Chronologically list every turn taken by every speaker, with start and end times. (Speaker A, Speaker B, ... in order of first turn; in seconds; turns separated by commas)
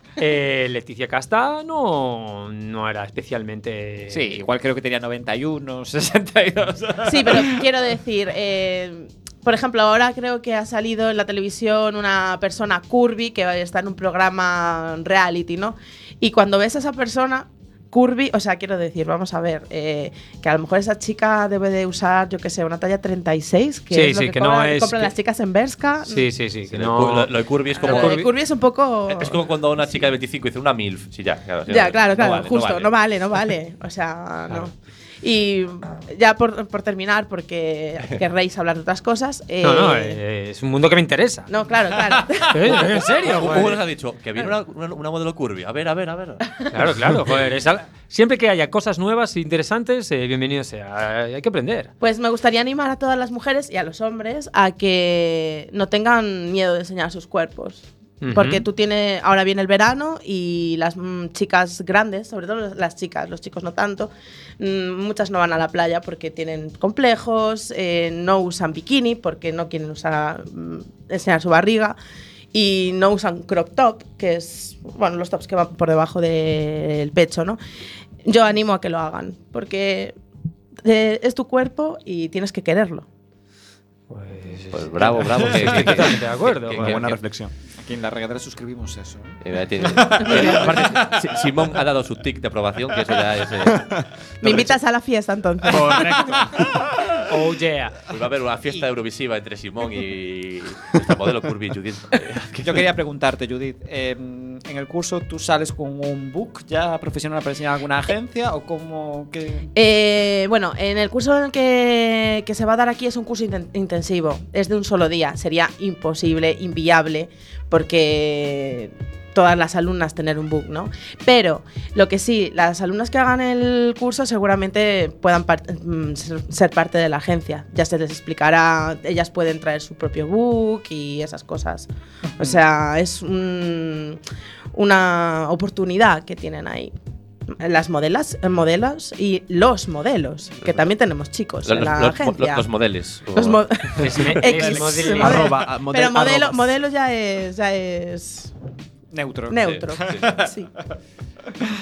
Speaker A: 0.2-4.3, Speaker B: 4.1-7.7, Speaker C: 7.0-26.3, Speaker A: 23.9-25.1, Speaker A: 26.1-28.3, Speaker D: 26.7-28.3, Speaker C: 27.8-29.4, Speaker D: 29.1-32.9, Speaker C: 31.7-40.2, Speaker A: 39.6-41.5, Speaker C: 41.5-42.9, Speaker A: 42.5-43.8, Speaker D: 42.7-46.5, Speaker A: 46.7-51.9, Speaker C: 52.0-72.0, Speaker A: 58.2-58.6, Speaker C: 72.5-77.6, Speaker C: 78.2-80.2, Speaker C: 80.8-83.1, Speaker A: 84.1-87.0, Speaker D: 84.7-87.2, Speaker E: 85.4-86.0, Speaker E: 86.8-87.5, Speaker B: 87.8-91.3, Speaker D: 89.4-93.9, Speaker C: 94.4-96.5, Speaker E: 95.7-96.8, Speaker A: 97.3-98.0, Speaker D: 98.1-102.9, Speaker B: 102.6-109.7, Speaker C: 109.8-134.2, Speaker C: 134.7-136.9, Speaker C: 137.5-142.7, Speaker D: 141.7-143.7, Speaker C: 143.3-148.5, Speaker A: 144.0-145.5, Speaker E: 145.1-146.7, Speaker B: 149.1-150.5, Speaker C: 149.5-150.7